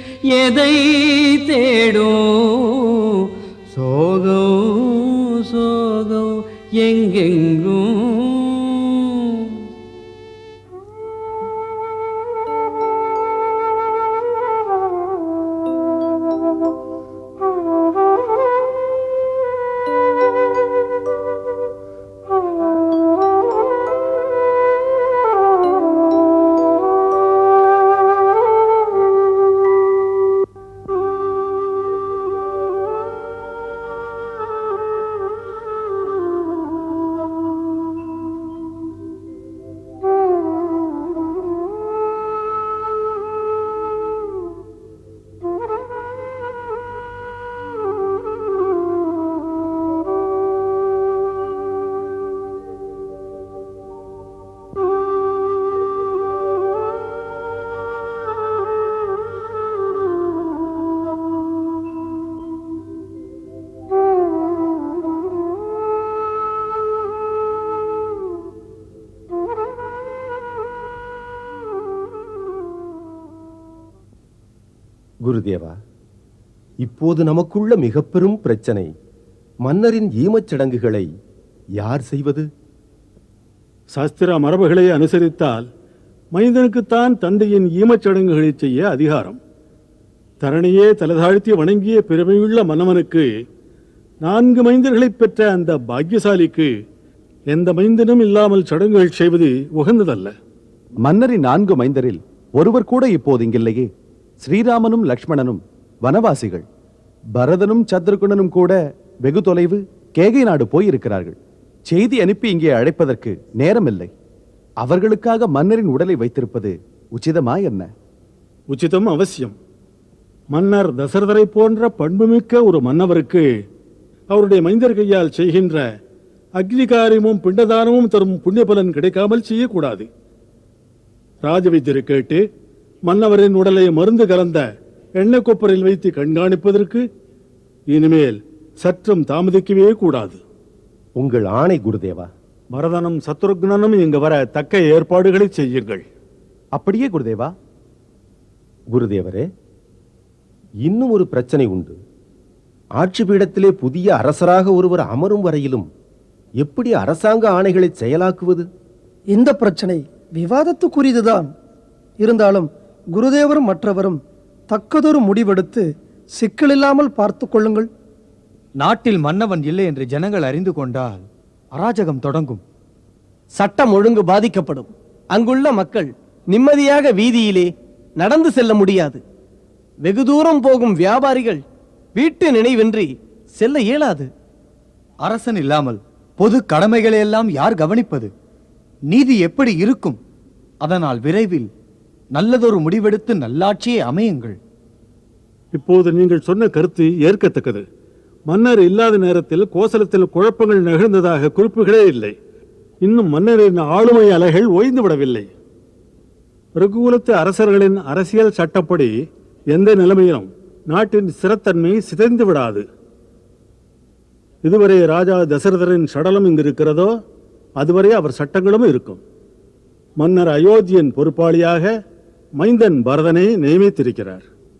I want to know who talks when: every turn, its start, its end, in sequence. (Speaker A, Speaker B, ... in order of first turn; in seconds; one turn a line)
Speaker A: 0.3-9.6
Speaker B: 75.2-75.7
Speaker B: 76.8-78.9
Speaker B: 79.7-81.1
Speaker B: 81.8-82.4
Speaker C: 83.9-85.7
Speaker C: 86.3-89.4
Speaker C: 90.4-93.3
Speaker C: 94.2-96.7
Speaker C: 97.5-100.3
Speaker D: 101.0-103.9
Speaker D: 104.4-106.6
Speaker D: 107.4-111.3
Speaker D: 111.9-114.1
Speaker D: 114.8-117.9
Speaker C: 118.7-119.5
Speaker C: 120.5-123.5
Speaker C: 124.3-125.9
Speaker C: 126.6-130.1
Speaker C: 131.4-132.4
Speaker C: 133.0-134.7
Speaker C: 135.2-137.0
Speaker C: 137.9-140.4
Speaker B: 141.2-142.3
Speaker C: 142.7-146.0
Speaker D: 146.7-147.5
Speaker B: 148.9-149.4
Speaker B: 150.8-151.9
Speaker B: 153.0-155.9
Speaker B: 156.6-158.6
Speaker E: 159.3-161.5
Speaker E: 162.2-164.2
Speaker E: 164.7-165.8
Speaker E: 166.4-167.8
Speaker F: 168.8-172.6
Speaker G: 173.6-179.2
Speaker G: 180.0-181.6
Speaker G: 182.1-184.3
Speaker F: 183.7-184.0
Speaker F: 185.2-188.3
Speaker F: 189.1-190.2
Speaker F: 190.8-191.7
Speaker F: 192.3-194.6
Speaker C: 195.7-197.8
Speaker C: 198.5-202.3
Speaker C: 203.0-205.5
Speaker C: 206.8-209.1
Speaker C: 209.7-212.8
Speaker C: 214.6-217.1
Speaker C: 217.8-219.2
Speaker C: 220.2-221.9
Speaker C: 222.6-224.4